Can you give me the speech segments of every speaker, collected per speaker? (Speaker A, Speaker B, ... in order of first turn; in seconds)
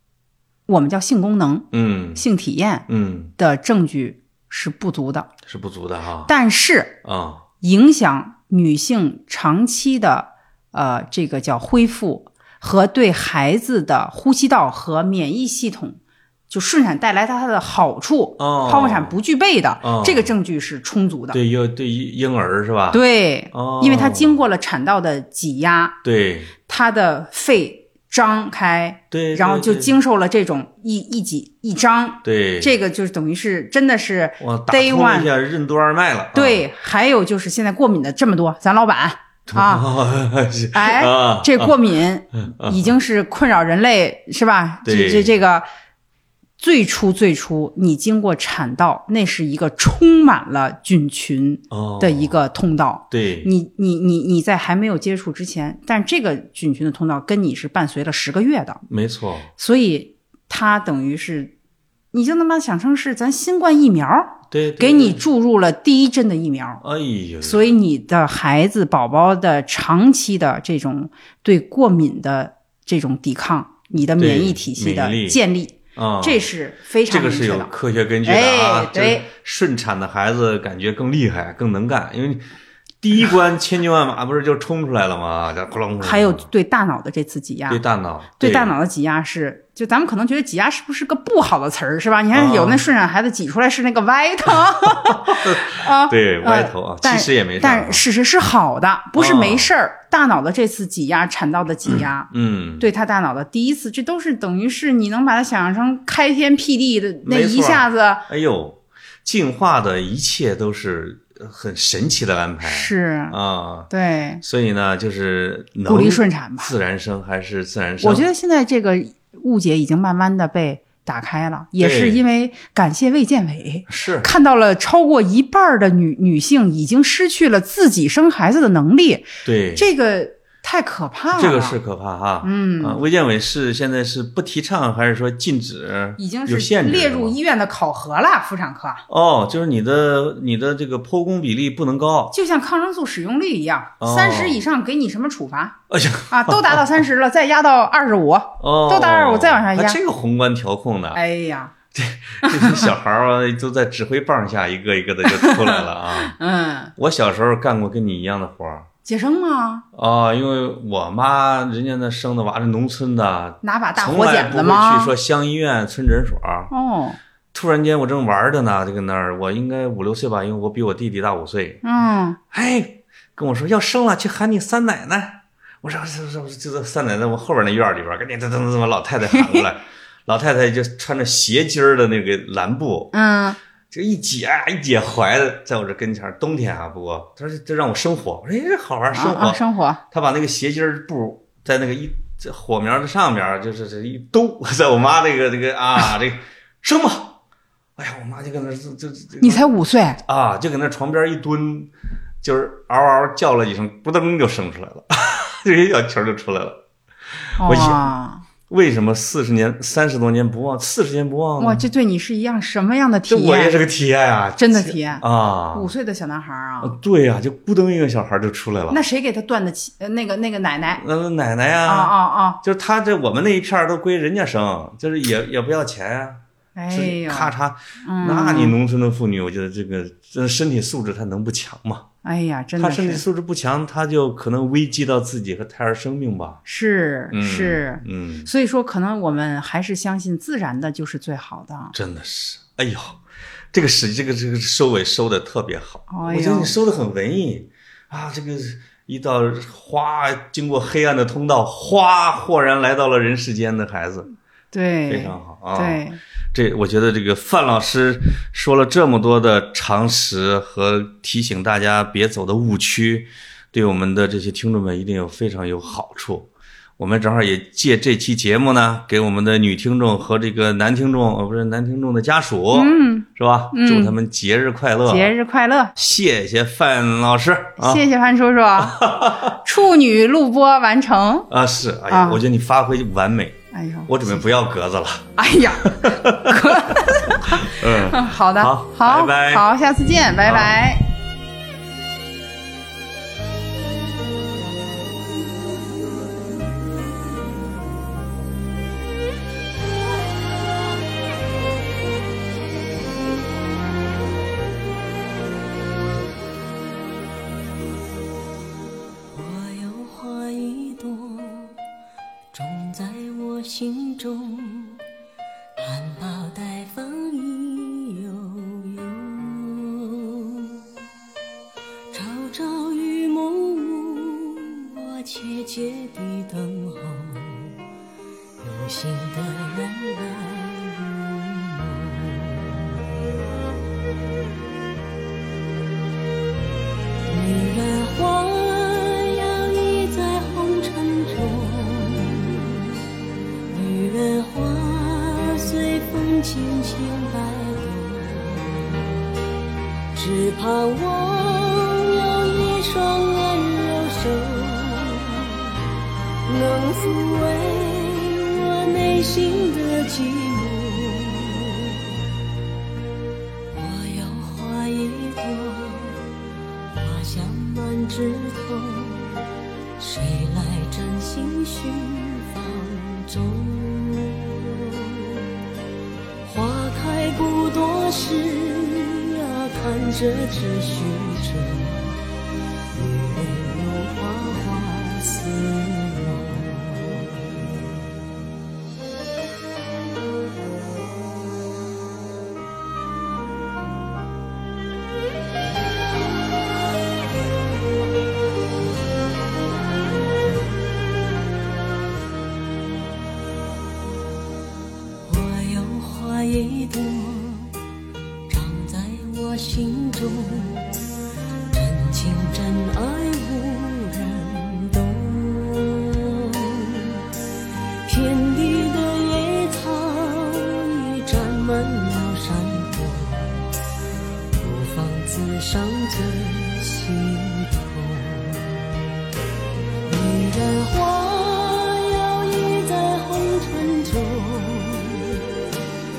Speaker A: 0.7-5.3, 6.2-7.0, 7.6-16.0, 16.5-21.4, 22.9-26.0, 26.7-35.3, 36.3-39.9, 40.7-45.6, 46.6-58.8, 59.6-61.5, 62.1-66.8, 67.4-77.7, 78.2-79.3, 86.0-87.8, 88.4-108.3, 112.6-113.3, 113.9-114.4, 115.8-116.7, 118.0-131.8, 132.4-133.0, 136.2-139.0, 142.3-145.8, 146.3-150.0, 151.1-151.7, 152.4-152.9, 155.2-156.9, 159.0-159.8, 163.6-165.1, 166.7-167.2, 171.8-172.4, 179.3-179.7, 183.1-183.6, 189.1-190.0, 199.4-200.2, 207.6-208.4, 211.6-213.8, 214.6-217.0, 218.9-221.0, 221.8-222.6, 226.7-228.8, 232.2-233.2, 236.6-241.9, 246.1-246.7, 254.7-256.2, 272.7-274.2, 275.0-275.9, 277.8-281.5, 282.1-282.4, 283.7-284.4, 285.4-291.1
Speaker B: 1.7-2.2, 2.9-3.3, 5.5-6.3, 7.0-7.4, 18.4-19.1, 19.8-20.3, 21.3-24.4, 26.0-26.5, 29.1-29.9, 32.2-32.7, 34.4-36.6, 39.5-41.8, 42.5-42.9, 44.8-45.3, 51.7-52.4, 53.1-53.5, 58.9-59.5, 64.5-65.2, 66.8-67.7, 74.2-75.4, 75.9-76.5, 77.1-82.5, 83.0-86.4, 87.7-88.8, 92.3-92.8, 95.0-98.0, 99.2-99.7, 102.3-102.9, 107.2-118.2, 121.8-122.2, 123.9-124.3, 129.4-129.9, 131.3-137.4, 139.1-142.3, 144.0-144.6, 145.9-147.0, 148.6-151.2, 151.9-156.3, 157.0-158.9, 159.9-166.7, 167.5-171.8, 172.5-183.1, 183.9-197.4, 198.0-199.7, 200.2-206.8, 207.3-208.1, 208.7-211.8, 213.3-215.9, 216.8-219.0, 221.0-232.1, 232.8-236.6, 237.3-238.5, 241.9-243.2, 243.7-254.3, 255.1-275.3, 275.9-278.1, 278.8-279.6, 281.5-289.7, 290.4-290.8
Speaker C: 309.3-311.8, 312.5-315.0, 315.8-320.8, 322.1-327.8, 328.6-333.0, 337.2-342.9, 343.7-349.1, 350.1-355.7, 356.4-362.0, 363.7-366.2, 366.9-369.3, 370.0-375.4, 376.4-382.2, 382.9-387.8, 405.2-407.7, 408.5-411.0, 411.7-417.2, 418.0-423.7, 424.5-428.9, 430.1-435.4